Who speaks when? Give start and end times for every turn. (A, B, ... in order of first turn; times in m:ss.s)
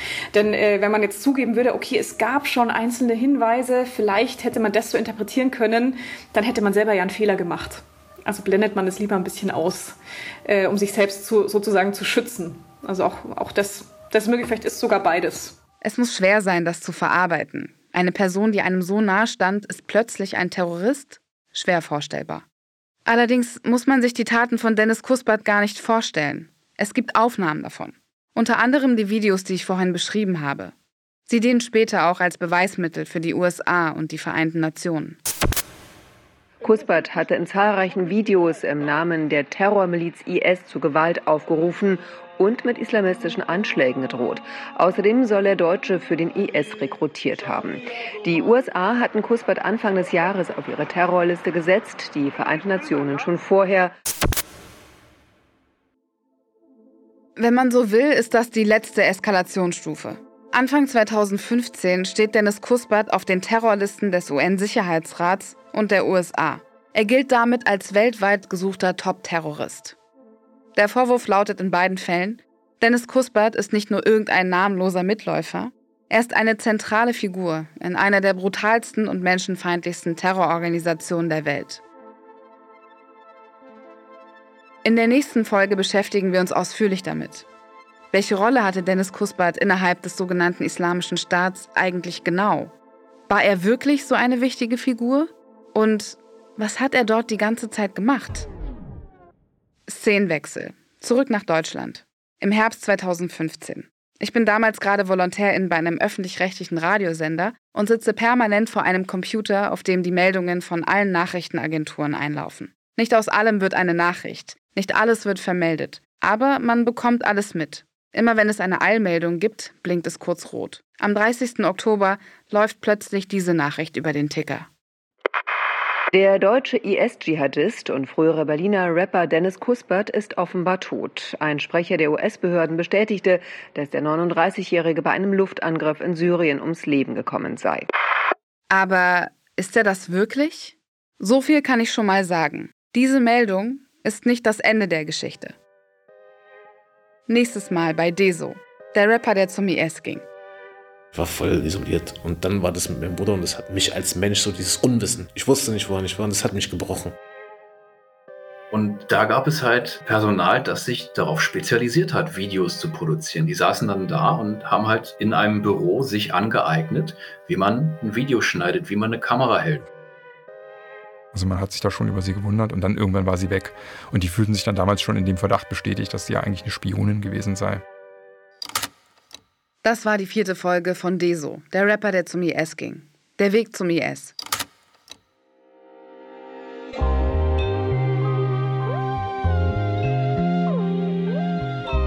0:00.3-0:15.6 A
0:15.8-0:22.4 B
0:23.1-0:30.7 B
0:31.3-0:35.2 B
0:36.6-0:53.9 C
0:57.4-1:10.0 B
1:10.8-1:21.8 B
1:24.8-1:27.5 B
1:28.1-1:32.7 B
1:33.3-1:38.5 B
1:39.9-2:04.7 B
2:06.1-2:17.9 C
2:18.7-2:25.6 B
2:27.3-2:30.2 B
2:31.1-2:37.1 D
2:38.7-2:49.8 E
2:51.3-2:57.8 F
2:59.8-3:04.3 B